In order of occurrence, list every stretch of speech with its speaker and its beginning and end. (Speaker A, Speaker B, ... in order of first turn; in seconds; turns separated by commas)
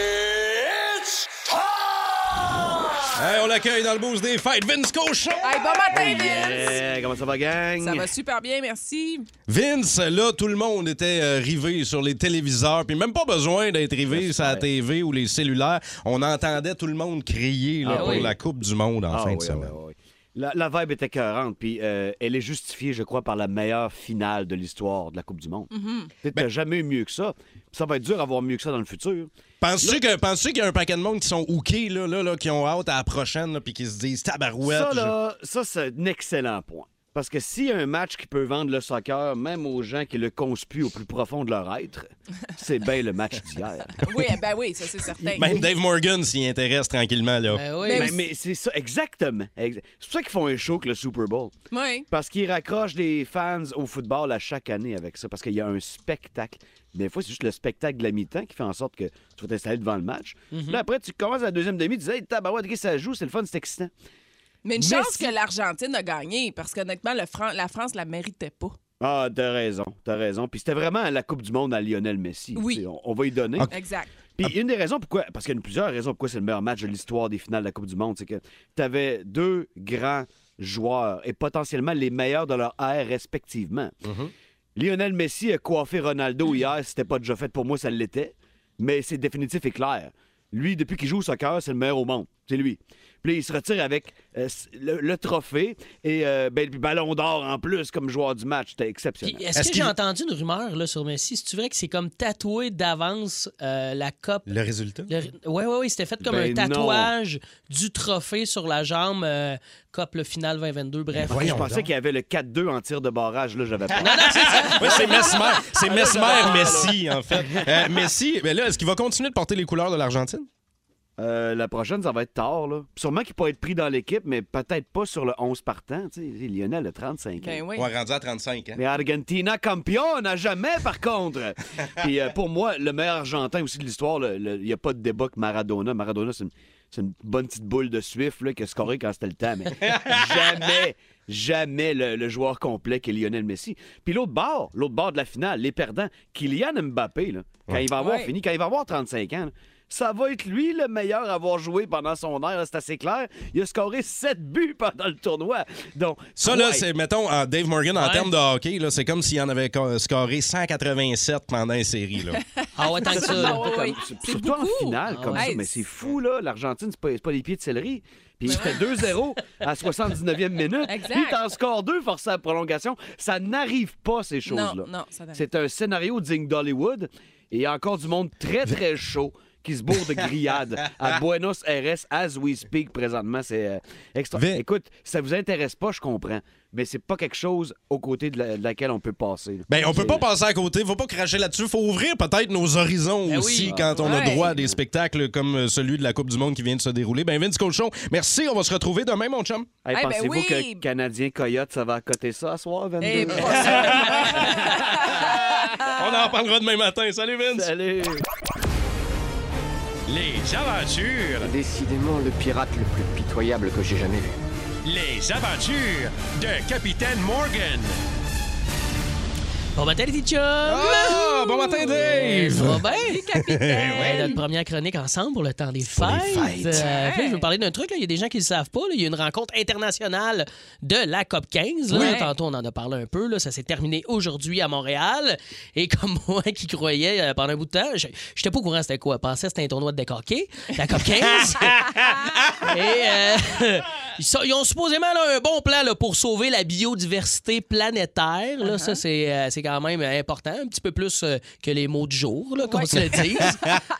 Speaker A: 3.1-6.3, Speaker B: 5.4-6.8, Speaker C: 5.9-8.1, Speaker B: 7.8-9.3, Speaker A: 9.5-19.8, Speaker C: 14.1-14.7, Speaker C: 17.8-18.4, Speaker D: 17.9-18.3, Speaker C: 19.1-25.7, Speaker B: 25.7-26.1, Speaker C: 26.2-30.1, Speaker A: 29.6-35.2, Speaker C: 34.6-44.3, Speaker B: 44.0-45.7, Speaker A: 45.3-47.6, Speaker D: 47.5-48.1, Speaker B: 47.8-48.2, Speaker C: 47.9-51.5, Speaker B: 51.7-52.1, Speaker C: 52.1-63.9, Speaker D: 60.5-60.8, Speaker B: 64.7-68.8, Speaker C: 64.8-65.3, Speaker C: 69.0-73.7, Speaker B: 72.6-72.8, Speaker B: 73.7-74.1, Speaker C: 74.4-83.9, Speaker A: 84.0-84.3, Speaker C: 84.8-99.5, Speaker D: 99.2-104.5, Speaker A: 99.5-99.9, Speaker A: 104.5-105.1, Speaker D: 105.1-111.6, Speaker C: 106.2-107.1, Speaker A: 111.1-111.9, Speaker C: 111.3-118.0, Speaker D: 114.0-115.5, Speaker A: 114.0-120.5, Speaker D: 116.1-116.8, Speaker C: 121.2-127.6, Speaker B: 127.4-127.9, Speaker A: 127.8-128.8, Speaker C: 128.8-156.9, Speaker A: 139.8-140.5, Speaker B: 148.0-148.3, Speaker A: 156.4-162.4, Speaker D: 157.9-158.3, Speaker B: 162.6-165.8, Speaker D: 162.8-163.8, Speaker C: 163.2-190.2, Speaker D: 165.1-165.5, Speaker B: 168.5-169.0, Speaker B: 170.8-171.4, Speaker B: 174.5-175.4, Speaker A: 184.3-184.6, Speaker A: 189.7-199.7, Speaker D: 193.3-194.1, Speaker C: 193.7-194.4, Speaker B: 194.0-194.6, Speaker C: 199.8-204.8, Speaker B: 199.9-200.8, Speaker B: 203.0-205.9, Speaker A: 203.4-207.7, Speaker C: 207.5-208.3, Speaker E: 210.1-211.5, Speaker F: 211.4-214.3, Speaker E: 214.8-218.0, Speaker D: 219.8-223.2, Speaker A: 220.6-222.8, Speaker B: 222.6-224.4, Speaker A: 223.3-224.4, Speaker D: 223.9-253.6, Speaker A: 225.9-226.9, Speaker B: 226.7-227.5, Speaker A: 231.9-232.2, Speaker B: 231.9-232.3, Speaker B: 248.6-249.0, Speaker B: 252.7-253.7, Speaker A: 253.3-253.8